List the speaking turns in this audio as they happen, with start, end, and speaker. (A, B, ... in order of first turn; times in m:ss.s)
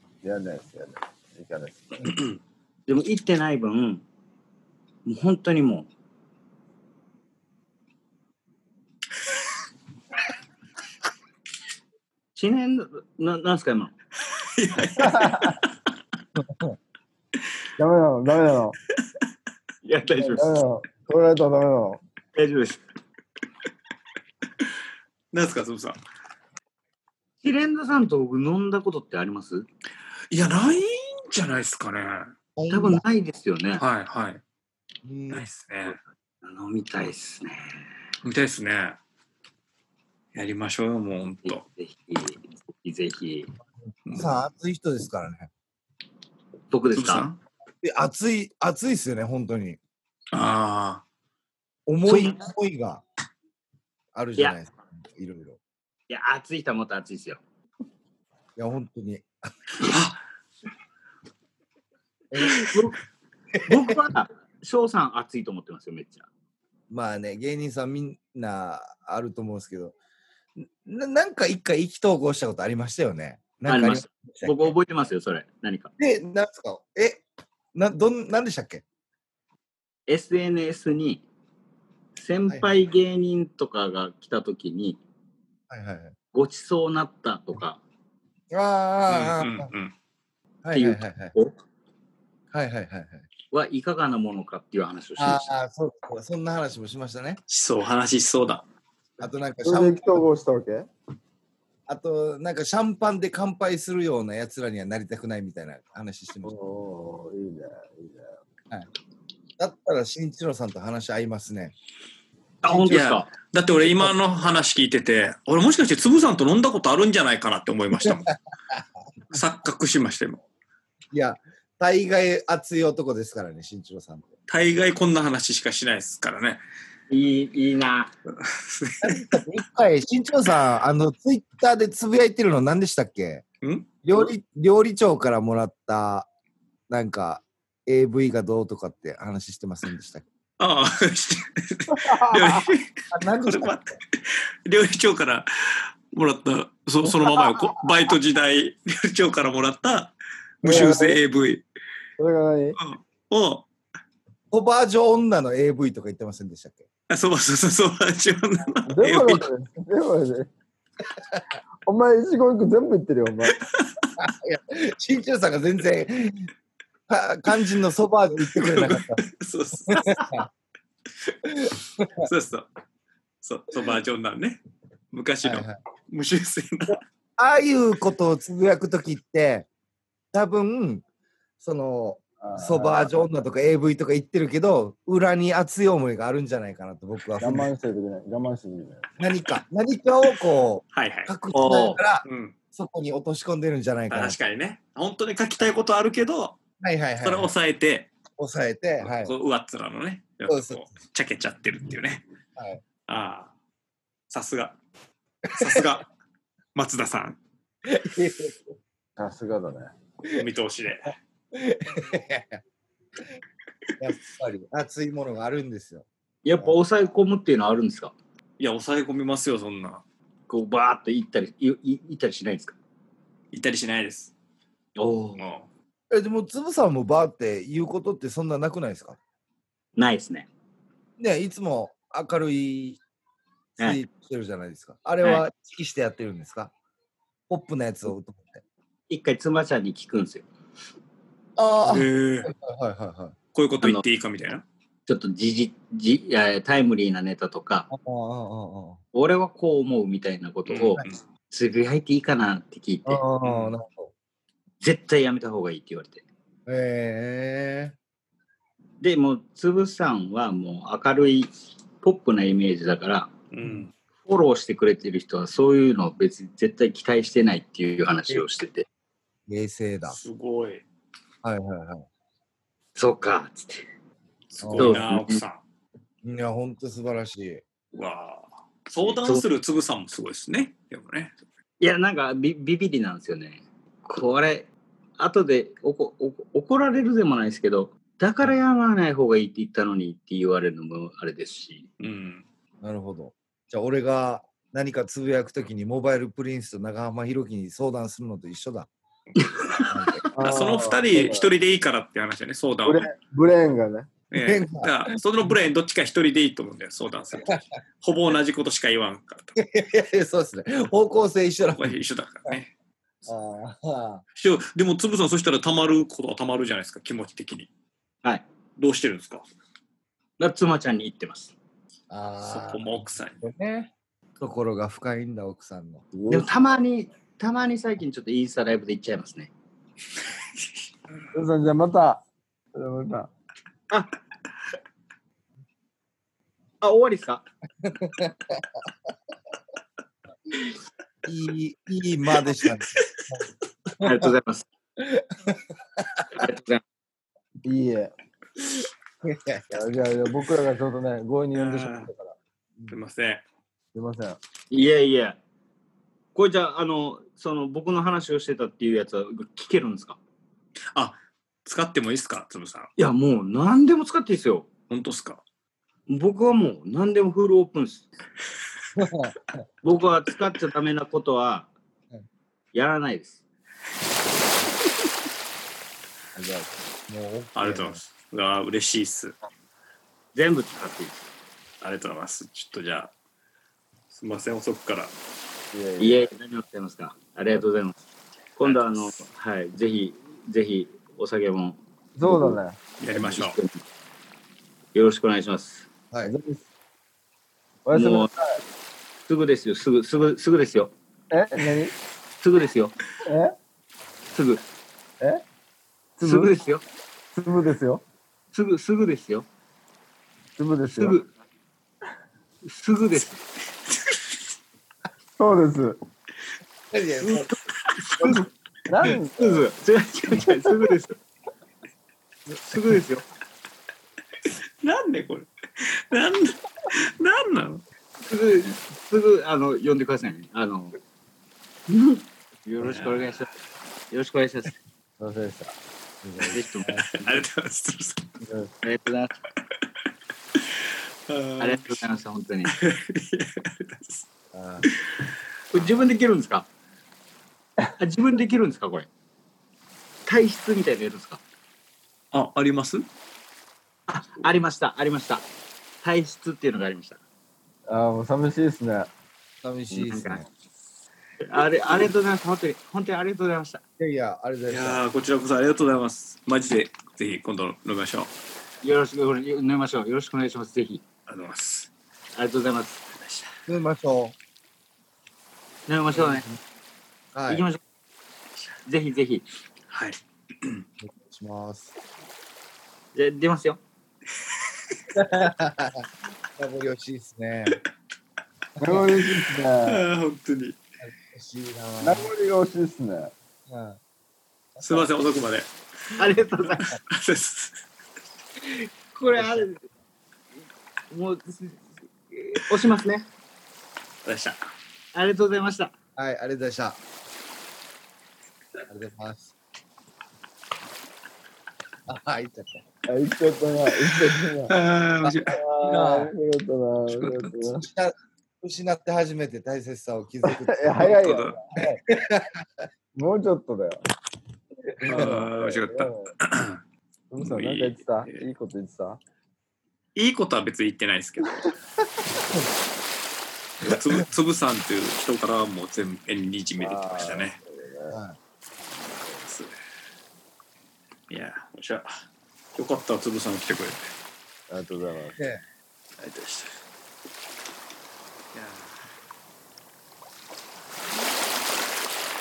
0:00.2-0:02.1 A
0:02.0-0:02.4 B
0:02.9-0:04.0 C
0:05.0-0:05.9 C
0:12.4-0:13.9 C
0:14.4-0:15.7 B
0:15.0-0:15.6 A
0:16.4-0:16.7 D
0:17.8-0:18.8 A
0:19.8-0:20.6 C
0:20.2-0:22.0 A
0:22.4-0:22.8 C
0:25.3-0:26.0 B
0:27.4-0:29.7 C
0:30.3-0:32.3 B
0:32.6-0:33.0 D
0:32.7-0:33.8 C
0:33.8-0:34.4 B
0:35.0-0:35.4 D
0:35.3-0:36.0 B
0:36.4-0:37.9 C
0:38.2-0:39.0 B
0:40.3-0:41.6 B
0:41.4-0:43.5 C
0:44.1-0:44.3 B
0:44.1-0:45.5 D
0:46.7-0:47.3 C
0:46.9-0:47.4 B
0:47.8-0:49.8 D
0:50.3-0:51.0 B
0:51.9-0:53.0 D
0:52.1-0:52.4 C
0:54.1-0:55.6 D
0:56.1-0:57.4 C
0:58.6-0:59.9 D
0:59.8-1:00.2 B
1:02.3-1:02.7 D
1:02.4-1:03.0 C
1:03.5-1:03.9 D
1:03.6-1:06.3 C
1:06.9-1:09.9 D
1:10.8-1:14.7 D
1:13.7-1:15.9 C
1:16.0-1:17.2 D
1:17.7-1:18.8 D
1:20.1-1:21.2 C
1:22.2-1:25.0 C
1:25.7-1:26.1 D
1:26.3-1:27.8 C
1:28.5-1:29.7 D
1:29.1-1:29.9 B
1:30.6-1:31.3 D
1:30.7-1:31.5 C
1:32.5-1:33.3 D
1:33.5-1:35.5 C
1:35.2-1:37.4 D
1:37.5-1:38.6 B
1:39.2-1:40.2 D
1:39.6-1:40.9 A
1:41.9-1:46.5 D
1:46.4-1:48.4 A
1:49.6-1:51.7 D
1:52.6-1:53.3 C
1:52.7-1:53.0 D
1:52.9-1:58.3 B
1:59.3-2:00.4 B
2:01.1-2:04.3 D
2:04.5-2:06.6 B
2:07.1-2:08.1 C
2:08.4-2:09.4 B
2:09.0-2:13.4 D
2:13.6-2:13.9 B
2:14.0-2:16.3 D
2:16.9-2:20.2 D
2:20.6-2:31.6 B
2:21.9-2:22.7 A
2:23.1-2:23.8 D
2:30.6-2:31.2 A
2:32.2-2:32.8 A
2:32.8-2:33.6 B
2:34.5-2:36.9 D
2:37.1-2:39.5 B
2:38.9-2:40.5 A
2:41.9-2:43.6 A
2:44.2-2:46.5 D
2:47.1-2:49.2 D
2:48.4-2:50.4 B
2:49.9-2:50.5 D
2:51.5-2:52.3 D
2:52.2-2:52.7 B
2:53.4-2:54.6 B
2:55.1-2:57.0 B
2:55.4-2:55.8 D
2:57.4-2:59.7 D
3:00.3-3:01.0 D
3:01.6-3:07.7 D
3:02.4-3:03.2 A
3:07.4-3:09.1 A
3:09.2-3:14.4 D
3:10.9-3:11.4 B
3:11.5-3:12.0 C
3:12.2-3:12.6 B
3:14.1-3:16.6 B
3:16.8-3:17.5 D
3:17.2-3:18.1 B
3:18.3-3:19.3 D
3:19.0-3:22.2 B
3:20.5-3:20.8 D
3:22.6-3:22.8 D
3:23.1-3:23.5 B
3:24.3-3:24.8 B
3:25.5-3:26.1 B
3:26.7-3:27.4 B
3:27.9-3:28.6 D
3:29.2-3:29.9 A
3:30.3-3:31.2 B
3:31.5-3:32.6 D
3:34.0-3:36.1 D
3:36.4-3:38.1 C
3:38.6-3:40.0 B
3:40.5-3:42.8 C
3:43.5-3:44.3 B
3:45.0-3:45.4 C
3:45.4-3:45.7 B
3:46.1-3:49.2 D
3:50.0-3:50.5 C
3:51.2-3:53.0 D
3:53.8-3:56.7 D
3:57.5-3:58.6 D
3:59.1-4:00.5 C
4:01.6-4:03.4 D
4:01.8-4:02.5 B
4:03.5-4:04.6 B
4:05.1-4:07.9 C
4:07.9-4:09.0 D
4:09.1-4:13.2 C
4:10.6-4:11.2 B
4:13.1-4:14.1 D
4:13.4-4:13.7 B
4:14.8-4:16.2 C
4:16.7-4:17.9 D
4:19.0-4:23.3 C
4:23.5-4:23.9 B
4:24.2-4:28.9 C
4:29.5-4:30.2 D
4:30.1-4:30.8 B
4:31.4-4:32.1 D
4:33.0-4:33.9 C
4:34.5-4:35.6 B
4:34.6-4:35.0 D
4:34.8-4:35.4 C
4:36.2-4:37.6 D
4:37.9-4:41.3 B
4:39.0-4:39.4 C
4:41.8-4:51.9 C
4:52.0-4:52.4 B
4:52.8-4:58.9 D
4:59.9-5:00.2 D
5:00.4-5:01.5 A
5:00.4-5:03.1 B
5:02.8-5:04.1 A
5:04.3-5:09.5 B
5:04.4-5:05.1 D
5:09.6-5:12.0 D
5:11.7-5:12.7 B
5:13.3-5:14.2 D
5:14.4-5:17.7 B
5:18.8-5:19.4 B
5:20.4-5:21.6 C
5:22.1-5:26.1 D
5:22.4-5:23.4 B
5:26.1-5:26.5 A
5:26.3-5:29.5 C
5:31.3-5:32.2 A
5:32.7-5:33.3 A
5:36.8-5:37.4 C
5:37.8-5:38.7 D
5:41.2-5:44.3 D
5:42.9-5:43.2 B
5:44.0-5:44.6 C
5:45.0-5:46.4 D
5:46.3-5:46.8 C
5:47.6-5:48.1 A
5:49.2-5:49.8 D
5:49.7-5:52.4 A
5:51.5-5:52.1 B
5:52.9-5:53.4 B
5:53.9-5:54.4 A
5:54.7-5:55.4 C
5:56.4-6:00.2 C
6:00.9-6:02.9 B
6:03.0-6:04.7 C
6:04.9-6:05.4 B
6:06.1-6:08.1 C
6:09.0-6:09.6 D
6:09.8-6:11.7 C
6:12.7-6:13.4 C
6:16.4-6:18.0 D
6:17.6-6:19.4 B
6:20.3-6:21.3 C
6:21.8-6:23.1 B
6:24.1-6:25.1 B
6:25.7-6:26.3 A
6:26.0-6:28.0 C
6:28.6-6:32.6 C
6:28.6-6:29.2 B
6:32.2-6:32.8 A
6:33.0-6:33.6 B
6:33.1-6:33.8 C
6:34.9-6:35.9 C
6:36.2-6:36.7 A
6:37.9-6:38.6 A
6:37.9-6:38.3 C
6:39.3-6:40.9 C
6:41.3-6:41.9 A
6:42.4-6:42.9 C
6:43.2-6:43.6 A
6:44.3-6:44.6 C
6:46.2-6:46.5 A
6:46.2-6:46.8 C
6:47.3-6:48.0 A
6:48.5-6:49.4 C
6:50.6-6:51.2 A
6:50.9-6:51.3 C
6:52.6-6:53.4 C
6:55.4-6:56.0 A
6:56.9-6:57.5 D
6:57.2-6:58.5 C
6:58.9-6:59.6 A
6:59.4-7:01.2 C
7:02.6-7:03.2 C
7:04.8-7:07.8 B
7:08.2-7:11.0 C
7:11.9-7:13.5 C
7:12.8-7:13.3 B
7:14.1-7:14.8 C
7:15.2-7:15.7 A
7:16.2-7:17.0 D
7:16.5-7:17.4 C
7:16.9-7:18.3 B
7:18.4-7:18.7 A
7:18.8-7:19.4 C
7:21.3-7:22.1 B
7:21.6-7:22.8 C
7:22.7-7:24.2 B
7:24.5-7:24.9 D
7:25.7-7:26.7 C
7:28.0-7:29.1 C
7:30.2-7:31.4 C
7:32.3-7:33.1 B
7:34.1-7:35.5 C
7:36.0-7:37.2 C
7:37.9-7:39.1 A
7:39.6-7:40.4 D
7:39.9-7:40.4 C
7:41.4-7:43.8 C
7:44.0-7:45.0 D
7:44.7-7:48.3 B
7:48.8-7:51.0 C
7:51.3-7:51.9 B
7:52.4-7:53.1 C
7:53.7-7:54.4 D
7:55.9-7:56.4 C
7:56.1-7:56.6 D
7:57.3-7:57.6 D
7:57.5-7:57.8 C
7:58.9-7:59.4 C
7:59.9-8:00.8 B
8:01.0-8:01.9 D
8:03.1-8:03.8 C
8:05.1-8:07.8 D
8:08.8-8:10.0 A
8:09.8-8:10.8 B
8:11.0-8:12.3 D
8:12.0-8:13.3 A
8:13.7-8:14.0 D
8:14.8-8:15.0 D
8:14.8-8:15.7 B
8:16.2-8:16.9 C
8:17.1-8:17.8 B
8:18.6-8:19.8 C
8:19.4-8:19.6 D
8:21.1-8:23.2 C
8:24.2-8:24.6 B
8:25.1-8:25.9 C
8:26.2-8:27.0 D
8:28.9-8:29.5 D
8:32.1-8:32.8 D
8:33.1-8:34.7 A
8:34.7-8:35.6 B
8:35.2-8:36.3 D
8:35.5-8:37.9 A
8:37.1-8:37.6 B
8:37.8-8:41.1 D
8:40.4-8:42.0 A
8:41.0-8:41.6 B
8:42.1-8:42.8 D
8:43.1-8:44.0 A
8:44.9-8:46.3 A
8:45.0-8:46.8 B
8:45.0-8:45.4 D
8:47.3-8:49.2 A
8:47.4-8:48.4 B
8:50.2-8:51.7 B
8:53.8-8:57.6 B
8:56.8-8:58.2 A
8:58.1-8:58.4 D
8:59.4-8:59.7 B
9:01.3-9:02.1 B
9:02.7-9:04.1 B
9:04.7-9:05.4 A
9:05.4-9:05.6 D
9:06.2-9:06.8 B
9:08.5-9:09.1 B